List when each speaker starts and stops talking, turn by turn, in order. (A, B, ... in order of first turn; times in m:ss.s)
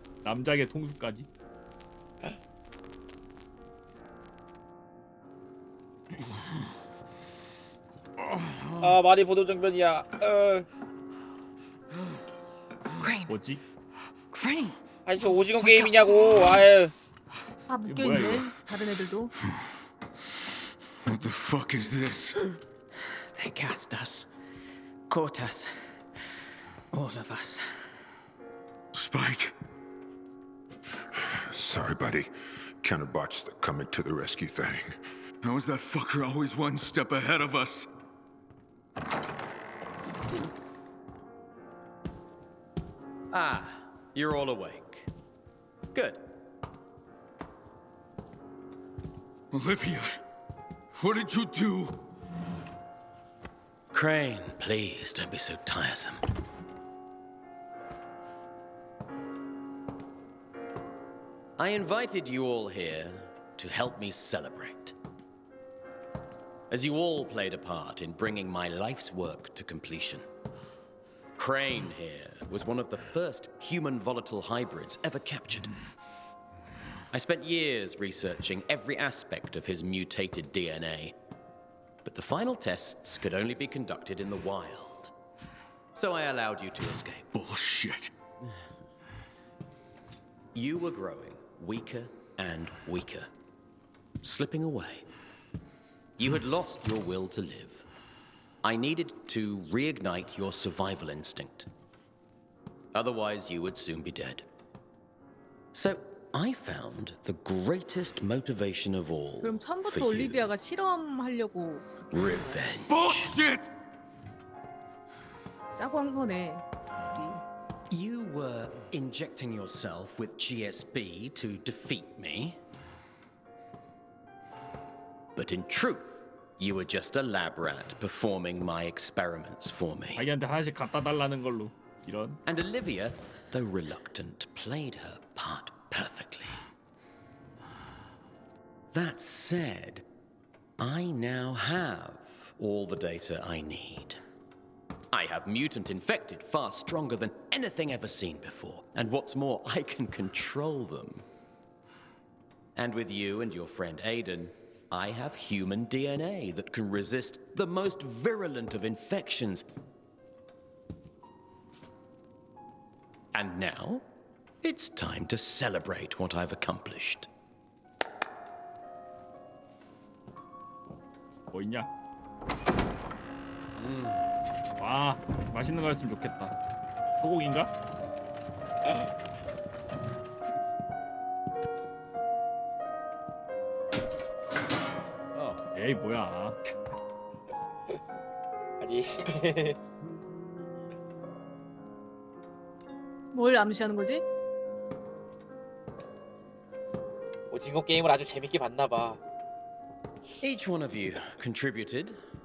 0:00.2-0:01.3 A
0:08.8-0:10.6 B
0:13.0-0:13.3 C
0:13.3-0:13.6 A
0:14.3-0:14.7 C
0:15.0-0:16.9 B
0:15.6-0:15.9 C
0:17.7-0:19.3 D
0:17.8-0:18.5 A
0:21.0-0:22.4 E
0:23.3-0:24.3 C
0:25.1-0:25.8 C
0:26.9-0:27.7 C
0:28.9-0:29.5 E
0:31.5-0:32.3 F
0:32.8-0:35.0 F
0:35.4-0:37.9 E
0:43.3-0:45.1 G
0:45.9-0:46.2 G
0:49.5-0:50.2 E
0:50.9-0:52.0 E
0:53.9-0:56.2 G
1:01.6-1:05.0 G
1:06.7-1:10.2 G
1:11.4-1:15.7 G
1:17.1-1:21.2 G
1:22.0-1:25.1 G
1:25.9-1:27.3 G
1:27.3-1:28.1 E
1:30.5-1:33.3 G
1:34.2-1:35.0 G
1:36.2-1:37.8 G
1:38.6-1:41.7 G
1:42.9-1:44.4 G
1:45.7-1:50.5 G
1:49.4-1:51.9 D
1:52.1-1:53.3 G
1:52.9-1:53.7 E
1:55.8-1:57.4 D
1:57.9-2:02.6 G
2:05.3-2:10.3 G
2:10.2-2:12.4 A
2:12.4-2:16.6 G
2:18.9-2:20.0 G
2:20.8-2:24.2 G
2:25.1-2:31.2 G
2:32.7-2:39.6 G
2:43.3-2:44.0 G
2:44.6-2:47.3 G
2:51.5-2:51.9 A
2:53.8-2:54.2 G
2:54.8-2:56.5 A
2:57.2-2:57.7 A
3:05.3-3:05.6 G
3:05.8-3:06.6 A
3:08.8-3:09.8 B
3:13.3-3:14.2 D
3:17.5-3:19.2 B
3:20.4-3:22.2 G